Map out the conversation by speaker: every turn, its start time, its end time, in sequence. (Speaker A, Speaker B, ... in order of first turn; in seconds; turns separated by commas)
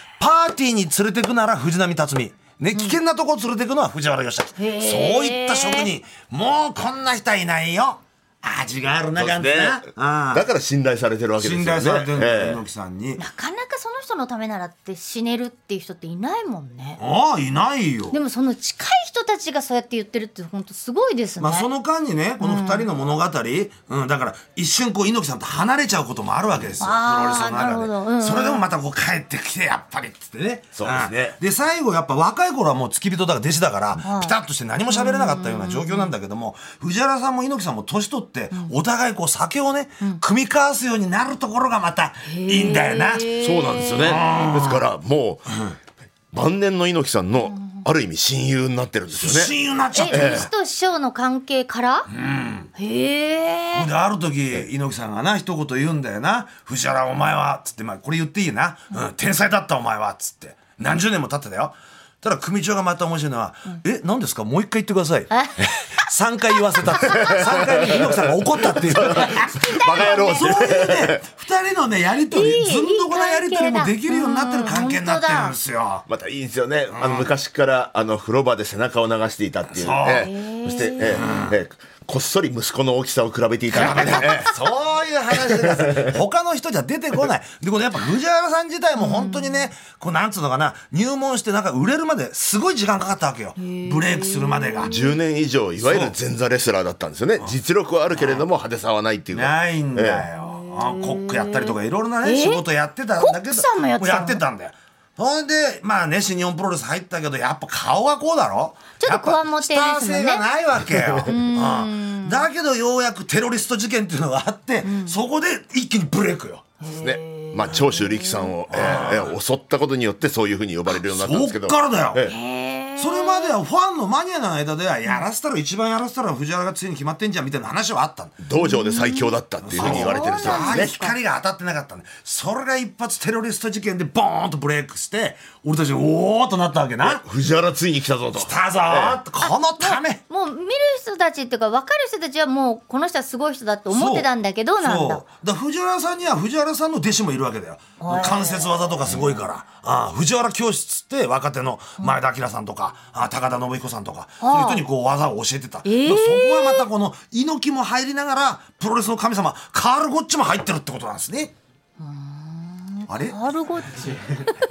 Speaker A: 0.2-10.4, Speaker B: 4.6-5.9, Speaker C: 9.1-12.6, Speaker A: 11.4-13.2, Speaker B: 13.2-17.0, Speaker A: 17.0-18.2, Speaker B: 18.1-21.7, Speaker A: 21.4-43.4, Speaker B: 22.4-22.9, Speaker B: 26.8-28.6, Speaker C: 30.7-31.1, Speaker B: 34.0-34.3, Speaker B: 34.9-36.1, Speaker B: 42.3-44.2, Speaker C: 43.4-45.6, Speaker A: 44.0-44.8, Speaker C: 46.3-50.5, Speaker B: 47.5-47.8, Speaker A: 49.1-50.5, Speaker B: 49.9-52.1, Speaker A: 52.1-52.7, Speaker B: 52.8-53.9, Speaker A: 53.7-76.0, Speaker B: 65.3-65.7, Speaker B: 67.1-67.4, Speaker C: 67.1-68.2, Speaker C: 68.8-71.2, Speaker B: 69.1-70.8, Speaker B: 72.3-75.5, Speaker C: 76.1-84.5, Speaker A: 76.9-77.3, Speaker A: 79.7-80.3, Speaker B: 80.2-81.2, Speaker A: 81.1-81.5, Speaker A: 83.7-95.0, Speaker C: 85.3-86.1, Speaker B: 89.0-89.6, Speaker B: 93.6-95.1, Speaker C: 94.8-100.3, Speaker A: 95.8-96.1, Speaker A: 98.1-98.5, Speaker A: 99.3-116.8, Speaker B: 100.4-102.6, Speaker B: 103.2-104.4, Speaker B: 109.0-110.4, Speaker B: 111.3-112.5, Speaker B: 114.8-115.2, Speaker B: 116.8-118.5, Speaker C: 116.9-122.3, Speaker A: 118.7-119.4, Speaker A: 121.0-122.3, Speaker B: 122.2-123.6, Speaker A: 123.0-128.4, Speaker C: 128.4-131.0, Speaker B: 128.6-131.1, Speaker A: 129.6-137.2, Speaker C: 137.0-139.2, Speaker A: 138.3-140.2, Speaker B: 139.4-145.2, Speaker A: 143.9-144.3, Speaker A: 144.8-161.5, Speaker B: 148.0-149.0, Speaker B: 154.4-154.8, Speaker B: 155.8-156.9, Speaker B: 162.0-164.5, Speaker A: 163.1-163.4